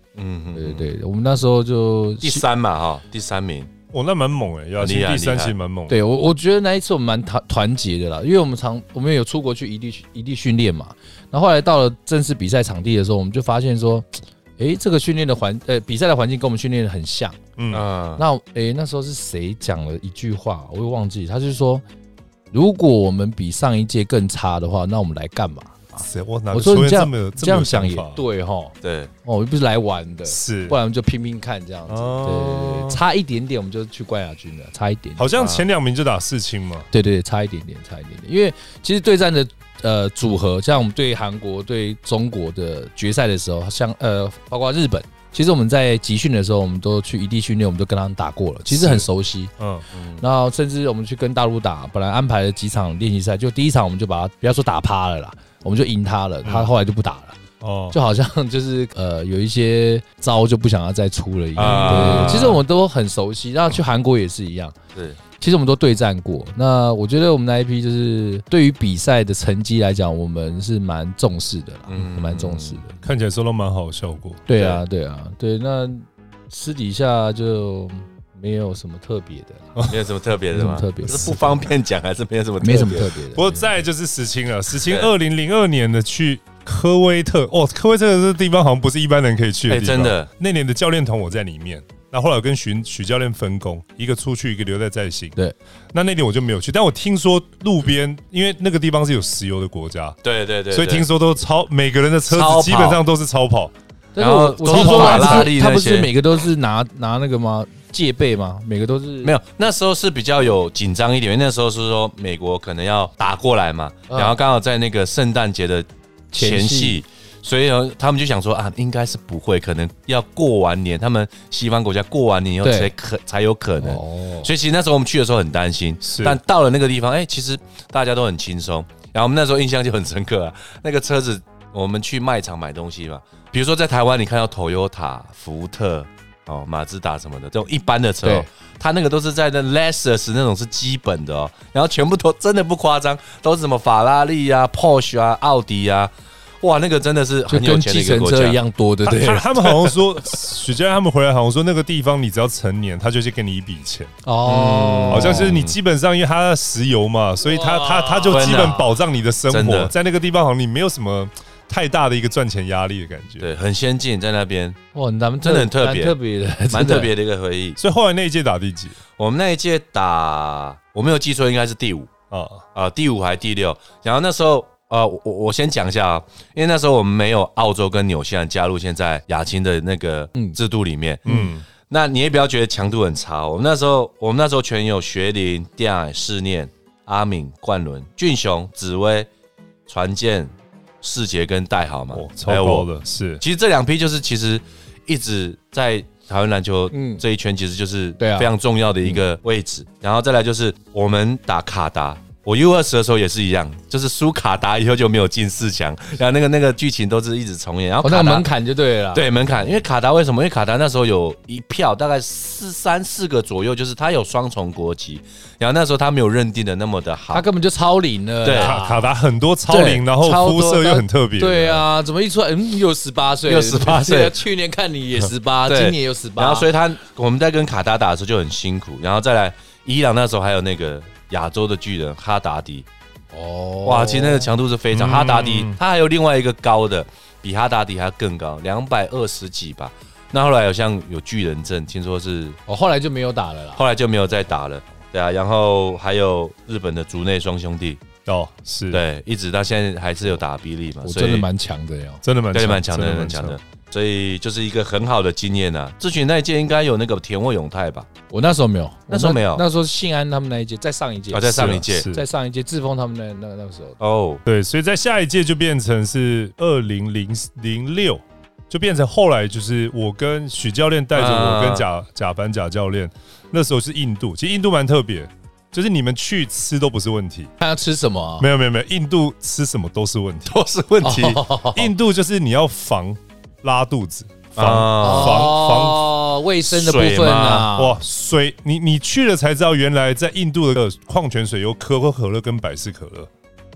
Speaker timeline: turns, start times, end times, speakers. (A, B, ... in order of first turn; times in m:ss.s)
0:00.2-0:00.9 A
0:00.6-0:02.5 B
0:02.2-0:03.7 A
0:03.9-0:06.0 C
0:04.8-0:05.5 A
0:05.9-0:17.4 B
0:17.6-0:17.9 C
0:17.7-0:18.2 A
0:18.2-0:21.8 B
0:22.5-0:35.3 B
0:26.0-0:28.2 C
0:28.8-0:29.1 A
0:30.3-0:30.8 C
0:31.9-0:33.0 C
0:35.2-0:36.9 C
0:35.4-0:35.7 A
0:36.9-0:49.5 B
0:48.7-0:49.1 C
0:49.6-0:49.9 C
0:49.9-0:50.2 A
0:50.2-0:57.4 B
0:56.4-0:56.7 C
0:57.6-0:58.0 C
0:57.9-1:04.8 B
1:01.6-1:02.6 A
1:01.6-1:02.6 C
1:05.4-1:12.9 B
1:11.9-1:12.8 A
1:13.0-1:14.4 C
1:14.5-1:19.8 B
1:14.5-1:14.8 A
1:19.9-1:23.2 A
1:20.5-1:21.6 B
1:22.6-1:23.7 B
1:23.3-1:35.4 C
1:24.8-1:25.1 A
1:29.7-1:30.3 A
1:35.9-1:40.2 C
1:40.2-1:41.1 A
1:40.7-1:43.7 C
1:42.3-1:43.0 A
1:44.2-1:49.3 B
1:44.2-1:46.1 A
1:44.7-1:45.5 C
1:49.2-2:28.6 A
1:54.1-1:54.4 B
1:56.3-1:57.0 B
2:02.6-2:02.9 B
2:03.8-2:04.5 B
2:06.0-2:06.4 C
2:27.5-2:29.9 B
2:29.0-2:34.1 C
2:34.2-2:35.5 B
2:34.5-2:35.8 A
2:35.1-2:43.5 C
2:37.4-2:38.8 B
2:38.3-2:38.9 A
2:39.5-2:39.9 A
2:43.4-2:44.8 A
2:44.9-2:47.1 B
2:45.4-2:46.2 A
2:46.7-2:47.8 A
2:47.8-2:49.0 C
2:49.2-2:52.1 A
2:52.3-2:52.6 C
2:52.8-3:09.3 A
3:01.2-3:01.6 C
3:09.9-3:12.9 A
3:12.1-3:13.4 C
3:13.4-3:28.5 A
3:16.9-3:17.2 B
3:18.2-3:18.5 B
3:28.0-3:29.3 B
3:29.1-3:37.5 A
3:37.3-3:39.1 B
3:38.4-3:38.8 A
3:38.6-3:41.8 C
3:39.7-3:46.7 B
3:43.5-3:44.4 A
3:45.7-3:52.9 A
3:53.3-3:54.5 B
3:53.9-4:02.6 A
3:54.9-3:55.8 C
4:02.7-4:03.8 B
4:03.8-4:08.0 A
4:08.3-4:09.0 C
4:08.9-4:11.5 A
4:11.0-4:12.2 B
4:12.2-4:13.6 C
4:12.5-4:18.1 A
4:18.3-4:24.0 B
4:19.1-4:19.6 A
4:21.3-4:22.1 A
4:21.6-4:22.2 C
4:24.0-4:24.4 A
4:24.4-4:37.5 C
4:31.1-4:31.8 A
4:37.6-4:38.5 B
4:38.4-4:40.5 C
4:40.5-4:41.5 A
4:41.0-4:41.9 B
4:41.8-4:46.0 C
4:44.6-4:45.6 A
4:45.0-4:48.0 B
4:46.7-4:47.7 A
4:47.8-4:53.3 C